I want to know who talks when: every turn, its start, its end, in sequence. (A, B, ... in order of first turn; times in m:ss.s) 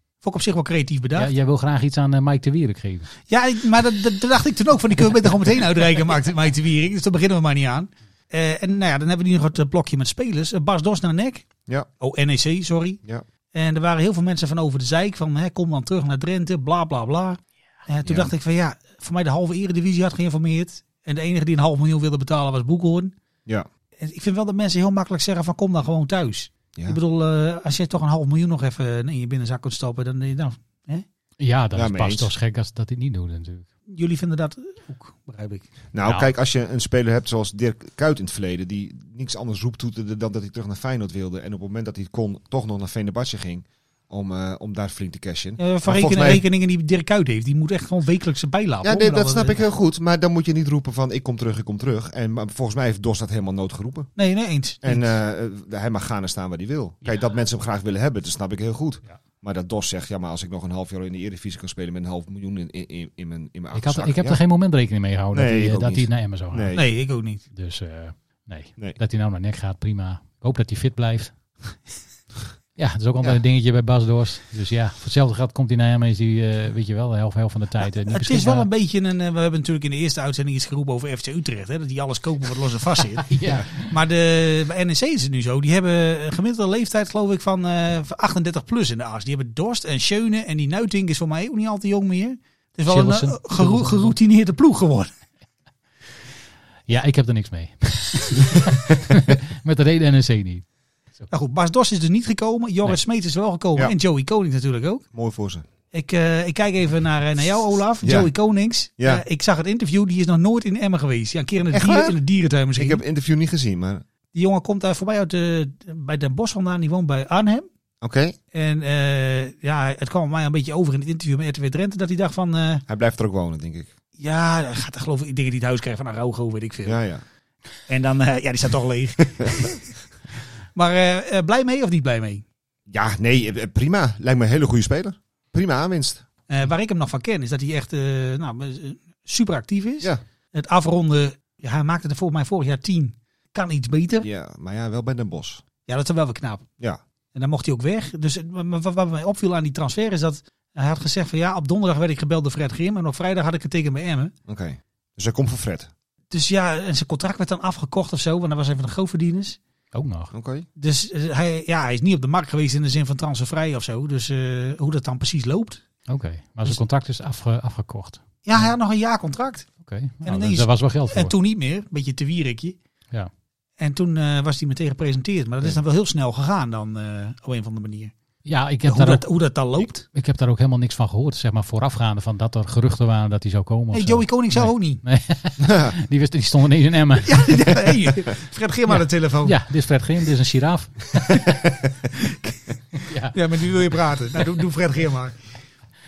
0:00.2-0:01.3 A
0:01.2-0:03.1 B
0:03.3-0:11.5 A
0:12.0-0:13.0 A
0:13.5-0:23.1 A
0:18.0-0:18.3 C
0:24.0-0:31.0 A
0:31.4-0:33.6 B
0:31.7-0:32.3 C
0:33.9-0:35.7 A
0:35.9-0:46.4 C
0:45.6-0:49.6 A
0:48.8-0:54.1 C
0:54.2-0:55.1 A
0:54.8-1:04.4 C
1:03.7-1:06.9 B
1:05.3-1:06.8 C
1:06.7-1:07.4 A
1:07.5-1:11.3 B
1:12.8-1:18.7 B
1:18.1-1:35.1 A
1:23.3-1:23.9 B
1:32.9-1:34.2 B
1:36.9-1:40.6 B
1:41.3-1:45.0 A
1:45.1-1:45.6 C
1:45.9-1:53.0 A
1:48.0-1:48.3 C
1:49.0-1:49.2 C
1:51.7-1:52.2 C
1:52.8-1:54.0 C
1:54.3-1:57.6 A
1:58.0-1:58.4 C
1:58.5-2:02.8 A
2:02.9-2:03.9 C
2:04.2-2:07.0 A
2:06.8-2:07.2 C
2:07.9-2:09.9 A
2:10.7-2:12.4 A
2:12.9-2:16.2 C
2:16.5-2:24.3 A
2:24.2-2:25.6 C
2:25.9-2:26.7 A
2:27.3-2:34.3 A
2:34.5-2:35.9 C
2:36.3-2:39.6 A
2:39.9-2:40.3 B
2:40.3-2:40.6 C
2:40.8-2:45.8 A
2:46.1-2:48.7 B
2:48.4-2:49.7 A
2:49.8-2:51.3 B
2:50.2-2:52.8 A
2:53.8-2:58.1 A
2:58.4-2:59.2 B
2:58.9-3:00.0 A
3:00.0-3:07.4 B
3:03.9-3:05.0 A
3:05.6-3:05.9 C
3:07.2-3:09.6 A
3:08.9-3:11.6 B
3:12.2-3:12.6 A
3:12.9-3:13.3 B
3:13.3-3:15.4 A